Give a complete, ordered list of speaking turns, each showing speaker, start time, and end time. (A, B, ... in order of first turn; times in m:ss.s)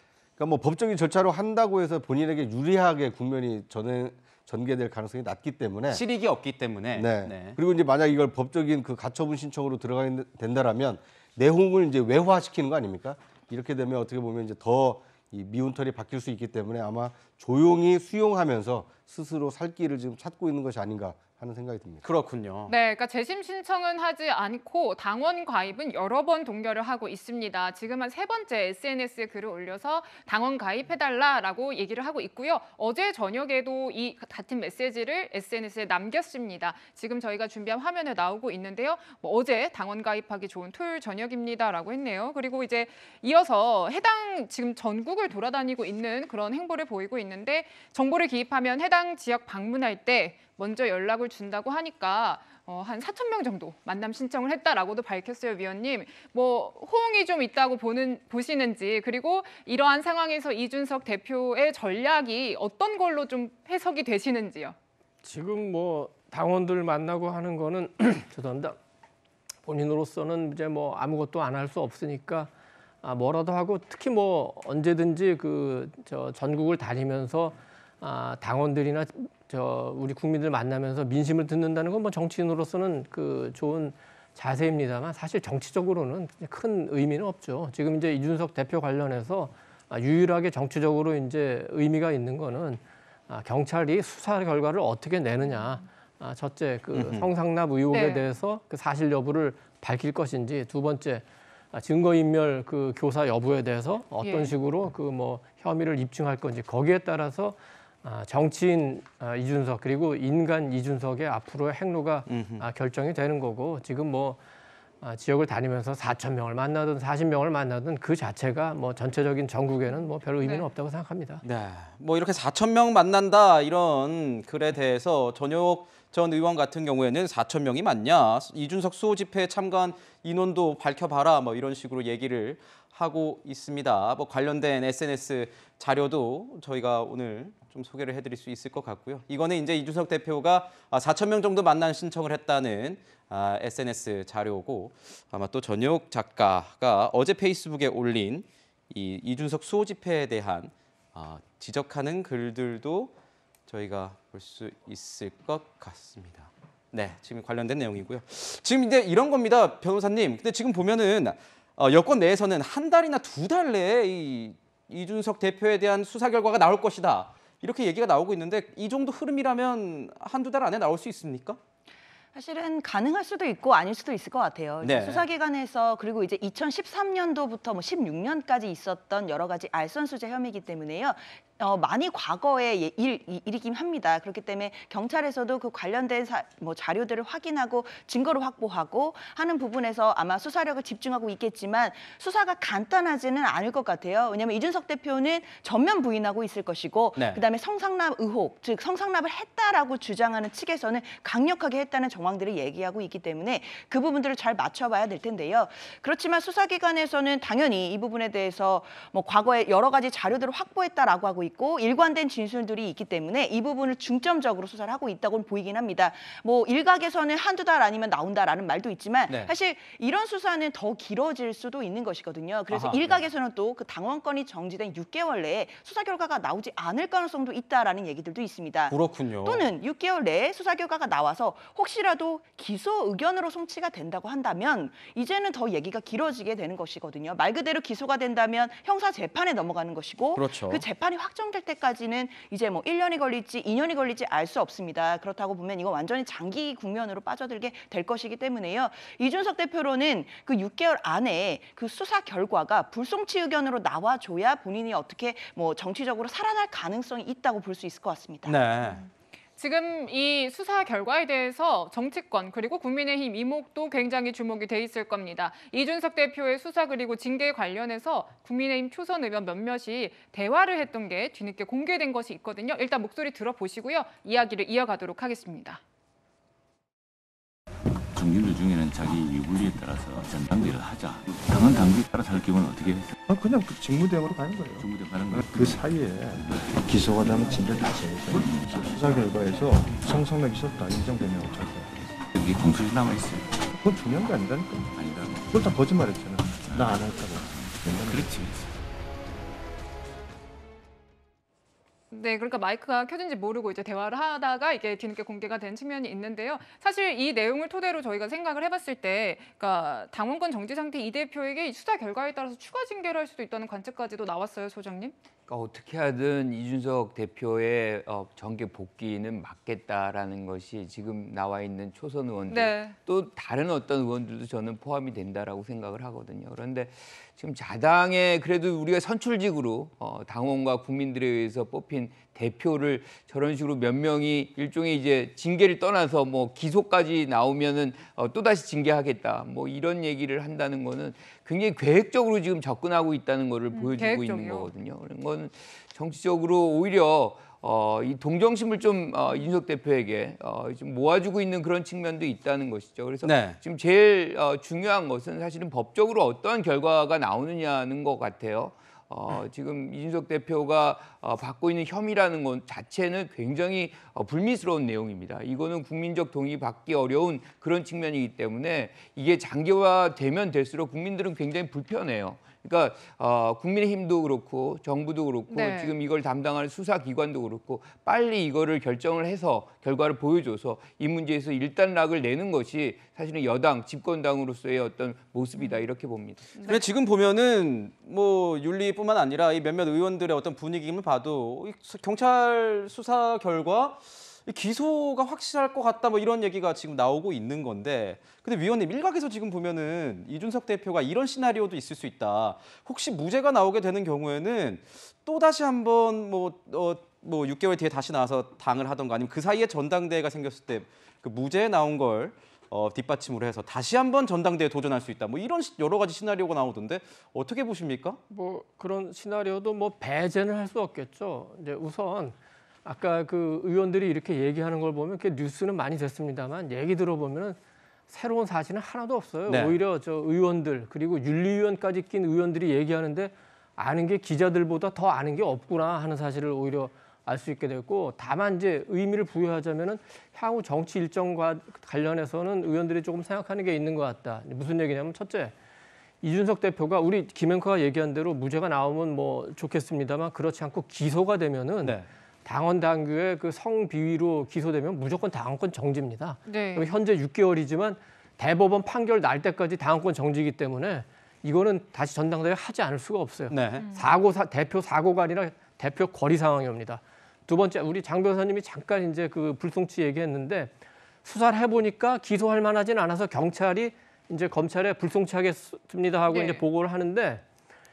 0:00.4-0:06.0 A
0:05.9-0:07.6 B
0:06.9-0:22.0 A
0:22.0-0:22.7 B
0:22.7-1:04.8 C
1:05.2-1:08.8 D
1:09.6-1:12.5 D
1:13.0-1:54.4 D
1:35.5-1:35.8 C
1:36.9-1:37.3 B
1:37.9-1:38.3 C
1:44.2-1:44.6 C
1:52.3-1:52.6 B
1:55.0-2:01.4 D
2:00.4-2:00.7 C
2:01.4-2:33.1 B
2:33.7-2:51.6 B
2:52.3-4:18.7 E
2:54.8-2:55.2 B
3:42.7-3:43.2 B
3:48.9-3:49.7 B
4:00.4-4:00.8 B
4:18.4-4:19.0 B
4:18.8-4:35.8 C
4:38.1-4:43.1 F
4:43.3-4:52.0 G
4:44.8-4:45.8 F
4:46.4-4:47.3 F
4:48.3-4:48.8 F
4:52.3-4:53.5 F
4:53.6-4:55.0 G
4:55.0-4:55.5 F
4:55.5-4:58.5 G
4:56.7-4:57.0 F
4:58.1-4:58.6 F
5:02.1-5:15.2 C
5:15.5-6:26.6 H
5:22.5-5:23.0 C
5:43.7-5:44.7 C
5:53.2-5:53.6 B
6:15.5-6:15.9 C
6:25.6-6:25.9 C
6:26.6-6:26.8 C
6:26.7-6:58.2 B
6:58.3-7:07.6 D
7:08.1-7:25.5 D
7:09.5-7:09.8 B
7:26.2-7:50.7 D
7:36.5-7:36.9 C
7:43.5-7:43.9 B
7:43.8-7:44.2 C
7:51.2-7:57.4 D
7:56.3-7:56.7 C